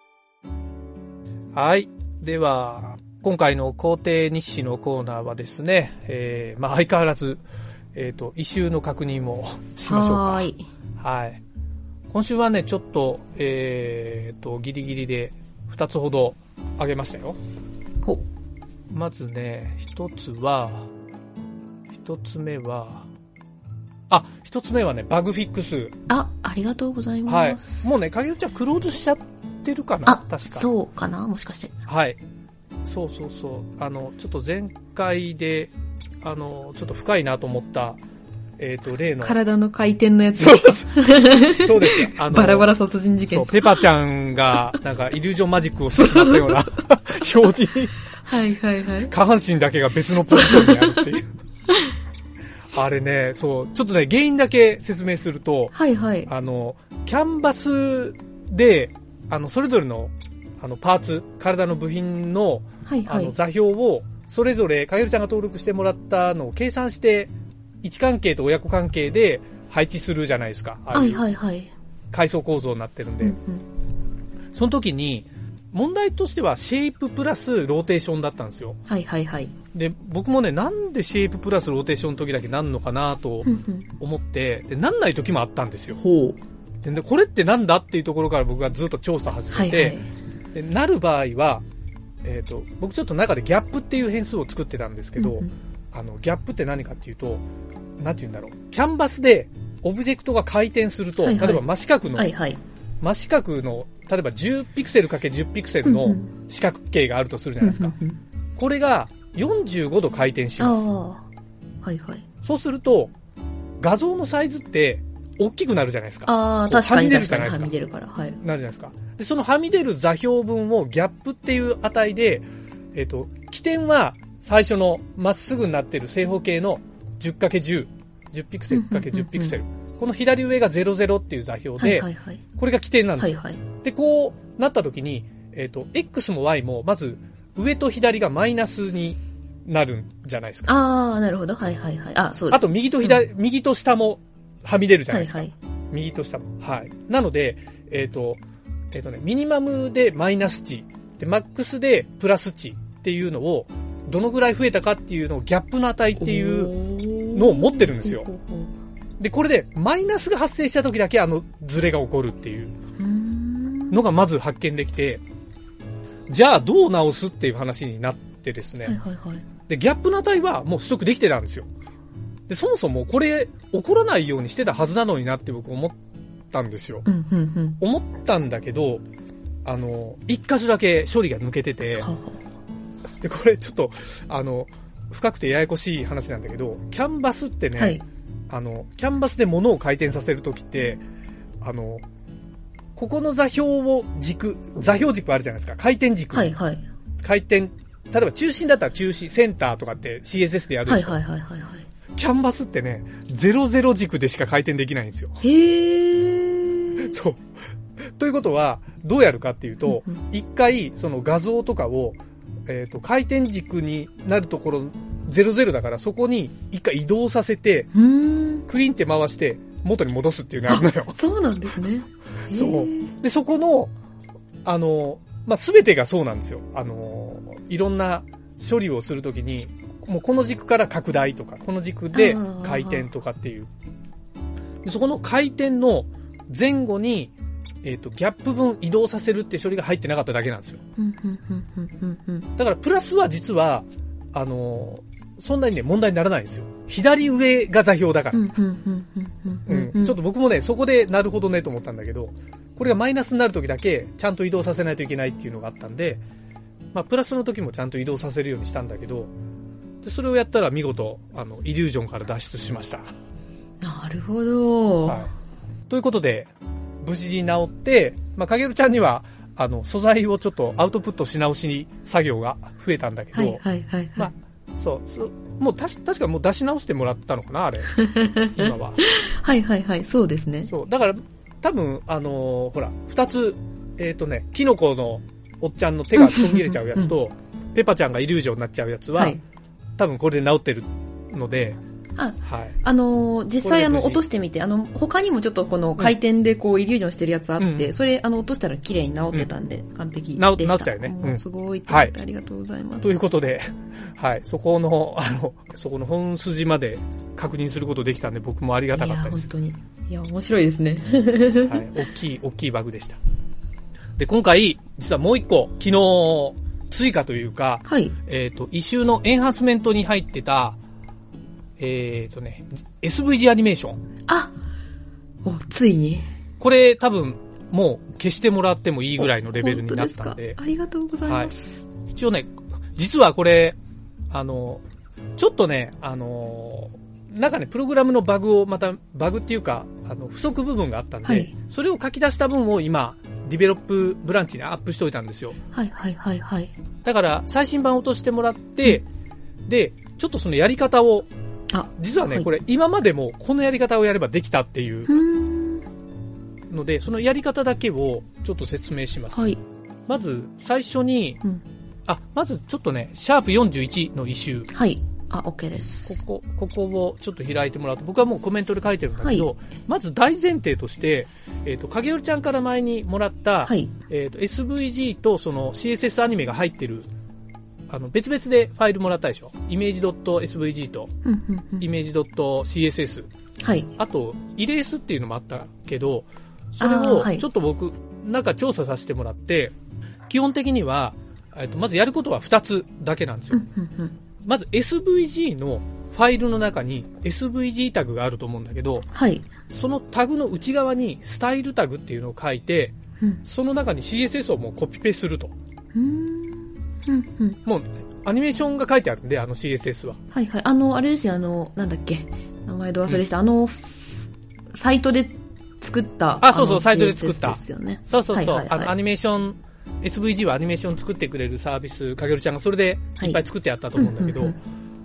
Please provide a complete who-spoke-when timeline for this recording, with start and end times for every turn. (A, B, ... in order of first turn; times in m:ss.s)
0:01.5-0:07.4 A
0:07.9-0:11.4 A
0:09.8-0:10.6 B
0:12.1-0:17.4 A
0:18.9-0:20.9 A
0:21.9-0:23.1 A
0:24.1-0:25.9 A
0:26.1-0:28.0 B
0:27.3-0:30.7 A
0:30.0-0:31.7 B
0:31.9-0:32.2 A
0:32.8-0:38.0 A
0:38.6-0:39.4 A
0:39.2-0:43.9 B
0:40.4-0:42.7 A
0:43.2-0:48.1 A
0:46.0-0:46.7 B
0:48.2-0:49.1 B
0:49.0-0:51.3 A
0:50.3-0:51.1 B
0:52.7-0:55.7 A
0:55.7-0:56.3 B
0:56.2-1:07.3 A
1:02.8-1:03.3 B
1:07.8-1:11.2 A
1:10.9-1:11.7 B
1:12.1-1:13.4 A
1:13.2-1:13.6 B
1:14.5-1:18.8 A
1:18.9-1:19.5 B
1:19.7-1:26.0 A
1:23.4-1:23.9 B
1:26.0-1:26.4 B
1:26.8-1:30.0 A
1:29.5-1:30.1 B
1:30.5-1:31.6 A
1:32.2-1:37.4 A
1:35.2-1:35.5 B
1:38.0-1:42.3 A
1:41.2-1:42.6 B
1:43.0-1:48.0 A
1:45.8-1:46.3 B
1:47.6-1:48.2 B
1:48.6-1:50.8 A
1:50.6-1:51.2 B
1:51.8-1:52.2 B
1:52.4-1:53.1 A
1:53.8-1:57.8 A
1:56.2-1:58.4 B
1:58.4-2:20.7 A
2:08.7-2:09.6 B
2:11.8-2:12.4 B
2:13.2-2:13.6 B
2:20.7-2:23.2 B
2:22.5-2:36.8 A
2:25.1-2:25.5 B
2:36.2-2:38.7 B
2:37.3-2:38.3 A
2:39.2-2:42.7 A
2:43.0-2:44.0 B
2:43.9-2:45.2 A
2:46.3-2:49.0 A
2:48.8-2:49.4 B
2:49.7-2:51.7 A
2:52.5-2:56.0 A
2:56.5-2:57.0 A
2:57.0-2:57.8 B
2:57.8-2:59.0 A
2:59.6-3:02.1 A
3:02.0-3:02.4 B
3:03.2-3:11.0 A
3:07.8-3:08.0 B
3:11.6-3:12.0 A
3:13.0-3:16.5 A
3:16.3-3:16.8 B
3:17.2-3:21.2 A
3:20.8-3:21.8 B
3:22.2-3:25.4 A
3:25.4-3:27.1 B
3:27.0-3:27.5 A
3:28.0-3:37.9 A
3:29.9-3:30.2 B
3:37.9-3:38.6 B
3:38.7-3:41.2 A
3:40.7-3:43.1 B
3:42.5-3:43.9 A
3:44.6-3:53.7 A
3:52.1-3:53.1 B
3:54.8-3:57.3 A
3:57.8-4:00.8 A
4:01.0-4:02.5 B
4:02.6-4:08.4 A
4:08.3-4:10.2 B
4:09.7-4:16.2 A
4:16.9-4:19.3 A
4:20.0-4:23.1 A
4:23.8-4:25.2 B
4:25.0-4:25.3 A
4:25.9-4:26.5 A
4:27.0-4:33.6 A
4:33.3-4:34.3 B
4:34.2-4:39.0 A
4:37.9-4:40.7 B
4:40.6-4:49.4 A
4:46.2-4:47.1 B
4:49.1-4:49.4 B
4:50.0-4:51.8 A
4:52.2-5:03.1 B
4:52.4-4:52.8 A
4:53.6-4:54.2 A
4:57.6-4:57.9 A
5:00.4-5:02.1 A
5:03.0-5:09.5 A
5:08.9-5:11.8 B
5:11.6-5:13.2 A
5:14.2-5:20.8 A
5:17.8-5:18.1 B
5:21.8-5:24.0 A
5:24.3-5:24.5 B
5:25.4-5:26.3 B
5:26.6-5:30.6 A
5:29.2-5:31.8 B
5:31.2-5:31.5 A
5:32.1-5:33.8 A
5:34.3-5:34.8 A
5:35.4-5:45.6 A
5:41.2-5:41.5 B
5:45.7-5:46.7 B
5:47.0-5:49.0 A
5:49.7-5:51.3 A
5:51.7-5:52.5 B
5:52.0-5:55.2 A
5:55.1-5:55.8 B
5:56.7-5:59.5 A
5:59.3-5:59.6 B
6:00.1-6:01.4 A
6:02.1-6:04.7 A
6:04.7-6:06.2 B
6:06.1-6:17.1 A
6:09.2-6:09.5 B
6:13.6-6:13.9 B
6:17.9-6:21.1 A
6:21.2-6:21.9 B
6:21.8-6:23.3 A
6:23.6-6:23.9 B
6:24.0-6:29.7 A
6:26.8-6:27.4 B
6:30.3-6:33.6 A
6:33.5-6:34.2 B
6:34.4-6:39.1 A
6:39.1-6:39.4 B
6:39.7-6:42.9 A
6:43.4-6:45.5 A
6:45.9-6:47.6 B
6:47.6-6:50.2 A
6:50.3-6:58.9 B
6:56.4-7:04.6 A
7:03.9-7:04.6 B